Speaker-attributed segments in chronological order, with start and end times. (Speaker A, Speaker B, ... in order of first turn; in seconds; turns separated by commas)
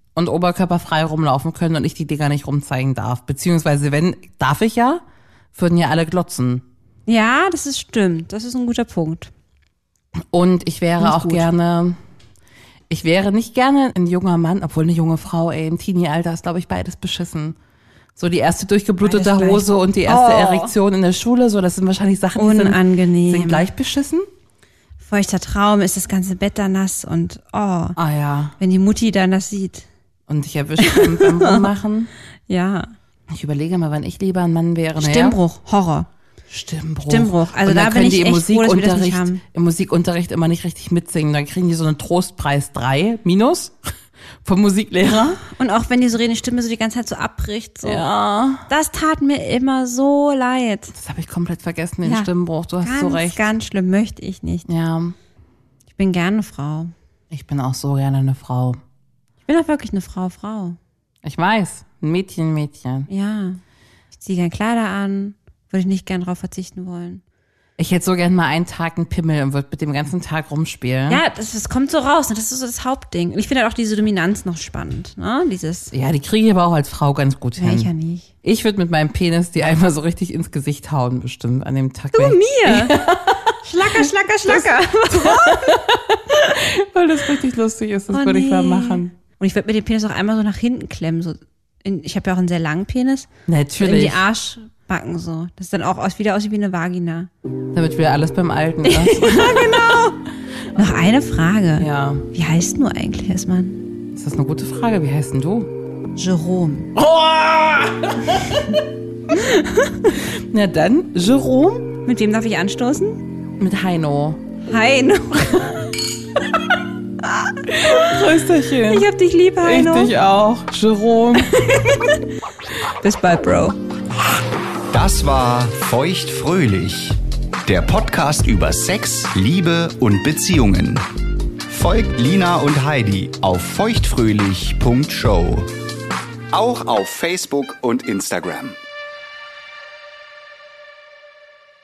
Speaker A: 0.1-5.0, Speaker A: 5.5-6.6, Speaker B: 7.1-9.3, Speaker A: 10.3-12.0, Speaker B: 11.0-11.5, Speaker A: 12.9-17.6, Speaker A: 18.1-24.3, Speaker B: 19.0-20.7, Speaker B: 22.4-23.6, Speaker B: 25.0-28.0, Speaker A: 28.0-28.6, Speaker B: 28.6-29.9, Speaker A: 30.3-32.1, Speaker B: 30.8-31.7, Speaker B: 32.5-32.9, Speaker A: 33.3-35.4, Speaker B: 35.0-36.1, Speaker A: 36.5-43.9, Speaker B: 37.0-39.4, Speaker A: 44.4-45.4, Speaker B: 45.4-48.0, Speaker A: 47.8-48.7, Speaker B: 48.6-50.9, Speaker A: 50.9-53.4, Speaker B: 52.0-52.3, Speaker B: 52.8-54.7, Speaker A: 54.6-55.1, Speaker B: 55.9-56.9, Speaker A: 57.3-58.8, Speaker B: 59.4-60.8, Speaker A: 61.2-63.1, Speaker B: 63.1-63.6, Speaker B: 64.1-67.2, Speaker A: 67.8-71.2, Speaker B: 71.1-75.9, Speaker A: 75.9-77.9, Speaker B: 77.6-78.3, Speaker A: 78.4-89.1, Speaker B: 82.1-83.0, Speaker B: 83.6-85.8, Speaker B: 88.1-97.3, Speaker A: 93.5-94.3, Speaker A: 97.7-99.8, Speaker B: 98.8-100.2, Speaker B: 100.7-103.8, Speaker A: 101.8-102.2, Speaker A: 104.1-105.7, Speaker B: 106.2-106.9, Speaker A: 106.9-108.8, Speaker B: 109.3-110.1, Speaker A: 110.2-111.9, Speaker B: 112.0-113.2, Speaker A: 113.6-114.4, Speaker B: 114.6-115.9, Speaker B: 117.2-118.1, Speaker A: 117.8-119.1, Speaker B: 118.8-120.1, Speaker A: 119.6-121.8, Speaker B: 121.6-122.2, Speaker B: 123.0-123.8, Speaker C: 124.9-131.1, Speaker C: 131.6-135.7, Speaker C: 136.5-138.8